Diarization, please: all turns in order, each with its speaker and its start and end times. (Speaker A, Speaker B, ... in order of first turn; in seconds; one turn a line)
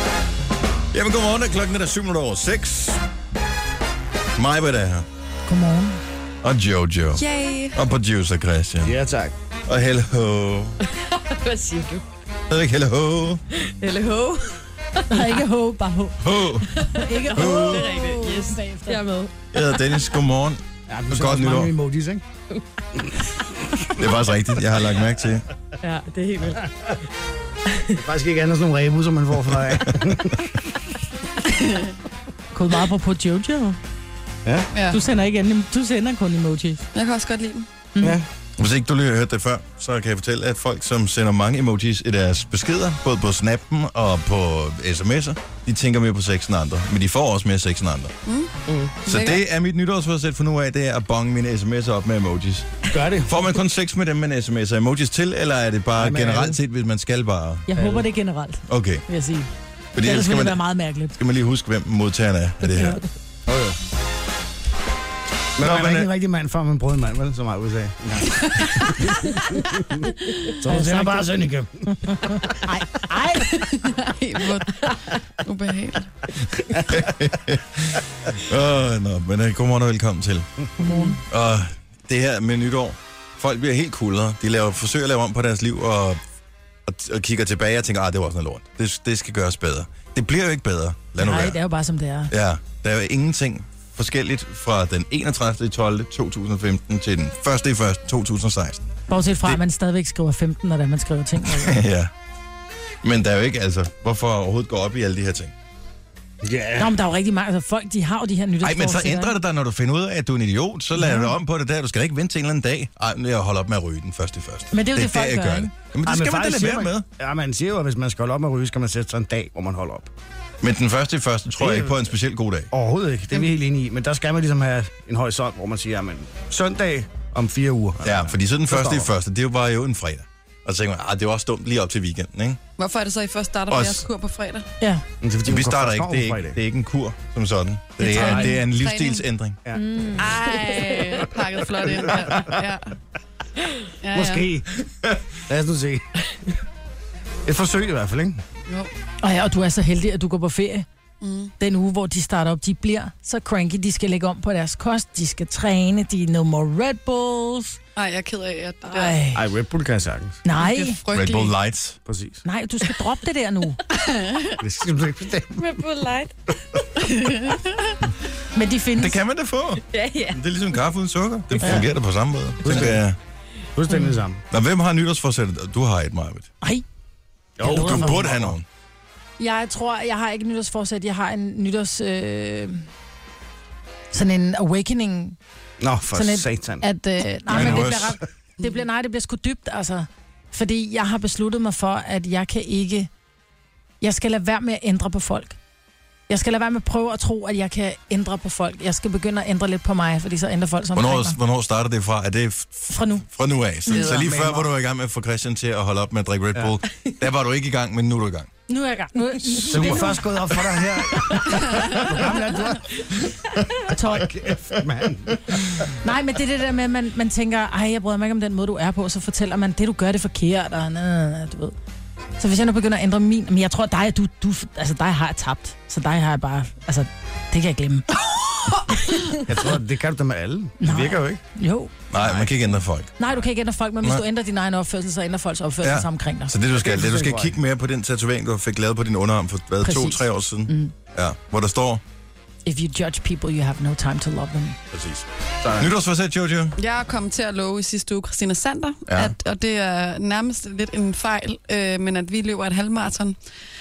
Speaker A: 0.9-3.0
Speaker A: 4.3-5.0
Speaker B: 5.5-6.0
Speaker A: 6.4-7.2
Speaker C: 7.1-7.8
Speaker A: 7.7-9.0
Speaker D: 8.8-9.3
Speaker A: 9.7-10.8
Speaker E: 10.9-12.0
Speaker A: 12.5-13.4
Speaker E: 13.6-15.3
Speaker B: 15.1-19.0
Speaker A: 16.2-16.7
Speaker E: 16.8-19.4
Speaker A: 17.4-17.9
Speaker A: 19.5-21.7
Speaker D: 20.9-22.2
Speaker A: 23.9-25.4
Speaker E: 25.8-26.7
Speaker D: 28.0-30.5
Speaker C: 31.5-31.9
Speaker B: 32.5-33.8
Speaker C: 34.7-35.0
Speaker B: 34.9-36.8
Speaker C: 36.9-37.7
Speaker B: 37.9-38.2
Speaker D: 38.0-38.3
Speaker A: 38.6-48.1
Speaker C: 48.2-49.4
Speaker E: 48.7-49.0
Speaker A: 49.0-52.7
Speaker D: 52.9-53.3
Speaker A: 53.2-57.6
Speaker D: 56.0-56.6
Speaker B: 57.7-59.5
Speaker D: 57.7-58.0
Speaker A: 58.7-59.0
Speaker A: 59.9-60.6
Speaker B: 60.0-61.2
Speaker A: 61.1-63.0
Speaker B: 62.7-63.0
Speaker D: 63.5-63.8
Speaker D: 65.6-70.0
Speaker A: 65.6-66.1
Speaker D: 70.6-72.5
Speaker B: 70.6-71.4
Speaker B: 71.9-73.7
Speaker C: 74.0-76.1
Speaker A: 76.6-80.5
Speaker B: 80.8-81.2
Speaker A: 81.2-86.2
Speaker A: 86.8-91.6
Speaker B: 91.2-92.3
Speaker A: 92.3-98.8
Speaker B: 99.1-101.8
Speaker A: 101.5-102.1
Speaker A: 103.0-105.5
Speaker D: 106.4-107.0
Speaker B: 106.8-109.4
Speaker A: 108.6-117.0
Speaker B: 111.0-111.3
Speaker B: 114.7-115.7
Speaker D: 116.0-120.1
Speaker A: 120.6-122.7
Speaker D: 121.6-121.9
Speaker D: 122.7-129.1
Speaker A: 128.0-132.6
Speaker C: 132.8-134.7
Speaker A: 133.7-134.1
Speaker B: 134.8-135.0
Speaker D: 135.2-136.6
Speaker A: 135.4-139.6
Speaker B: 138.0-138.5
Speaker C: 138.0-139.2
Speaker D: 138.2-138.4
Speaker E: 139.7-140.9
Speaker C: 140.2-142.9
Speaker D: 141.8-142.6
Speaker C: 144.0-144.5
Speaker D: 144.1-144.7
Speaker D: 145.5-146.0
Speaker D: 147.4-148.4
Speaker B: 149.2-150.9
Speaker C: 151.2-151.5
Speaker B: 151.6-157.8
Speaker C: 157.9-159.2
Speaker B: 158.8-159.4
Speaker D: 159.3-160.4
Speaker B: 160.4-161.0
Speaker C: 160.5-161.6
Speaker A: 161.1-162.0
Speaker D: 162.1-162.4
Speaker B: 162.4-163.8
Speaker C: 163.9-164.6
Speaker D: 164.6-165.7
Speaker E: 165.6-166.3
Speaker C: 166.9-168.0
Speaker B: 168.5-169.2
Speaker A: 169.0-173.2
Speaker E: 169.9-170.4
Speaker D: 171.6-171.9
Speaker D: 172.6-173.0
Speaker D: 173.8-174.4
Speaker A: 174.5-176.5
Speaker D: 177.6-178.6
Speaker B: 177.6-178.2
Speaker A: 177.6-178.6
Speaker B: 179.4-182.9
Speaker B: 184.1-185.4
Speaker D: 185.8-186.8
Speaker B: 186.1-193.1
Speaker A: 187.5-188.2
Speaker D: 187.5-188.0
Speaker B: 194.0-195.6
Speaker B: 196.3-201.4
Speaker A: 200.9-208.5
Speaker B: 202.9-203.3
Speaker B: 203.9-204.1
Speaker D: 204.0-204.7
Speaker B: 208.7-210.2
Speaker A: 209.4-210.1
Speaker D: 209.7-213.0
Speaker B: 213.9-214.3
Speaker D: 214.0-215.4
Speaker B: 216.0-221.8
Speaker B: 222.4-228.2
Speaker D: 229.5-231.4
Speaker B: 230.8-231.9
Speaker A: 232.1-233.1
Speaker B: 233.2-236.5
Speaker A: 235.8-242.0
Speaker D: 236.8-237.6
Speaker B: 239.8-240.9
Speaker B: 242.7-244.8
Speaker A: 244.9-245.2
Speaker D: 245.6-245.9
Speaker A: 245.8-246.8
Speaker C: 246.8-253.4
Speaker A: 249.1-249.3